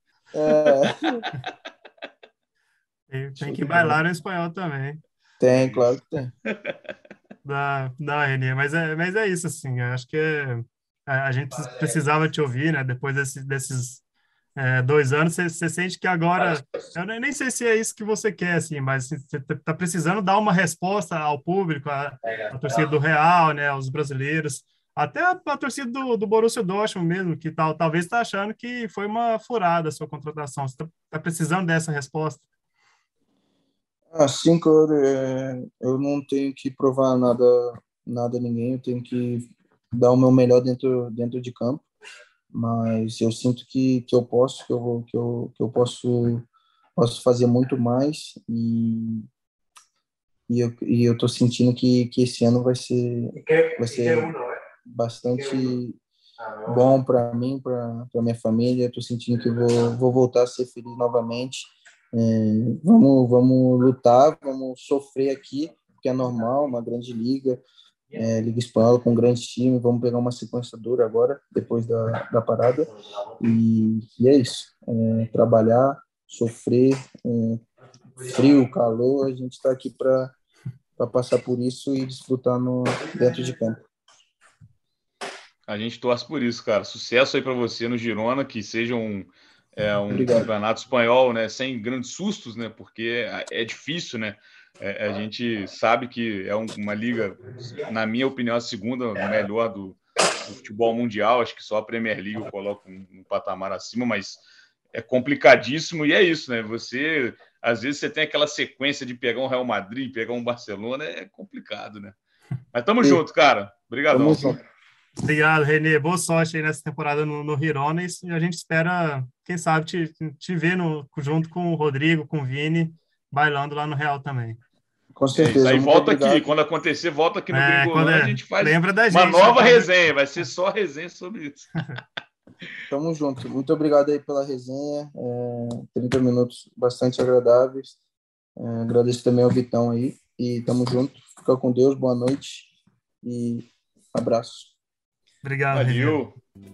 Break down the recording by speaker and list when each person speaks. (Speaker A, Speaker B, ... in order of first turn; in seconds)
Speaker A: 0.3-1.2, 3.4-4.0, 5.4-6.3, 34.1-41.9, 42.5-49.3, 50.5-56.0, 56.6-67.6, 68.1-77.6, 78.3-80.3, 81.0-83.8, 90.1-90.5, 114.1-114.6, 125.2-126.5, 132.9-138.0, 138.6-142.7, 143.2-144.7
Speaker B: 3.1-5.0, 7.5-14.0, 14.6-32.4, 115.2-124.6, 127.5-129.9, 145.4-146.2
Speaker C: 5.5-5.8, 6.5-6.8, 85.7-104.4, 104.9-112.2, 112.7-114.6, 125.3-131.7, 145.7-146.4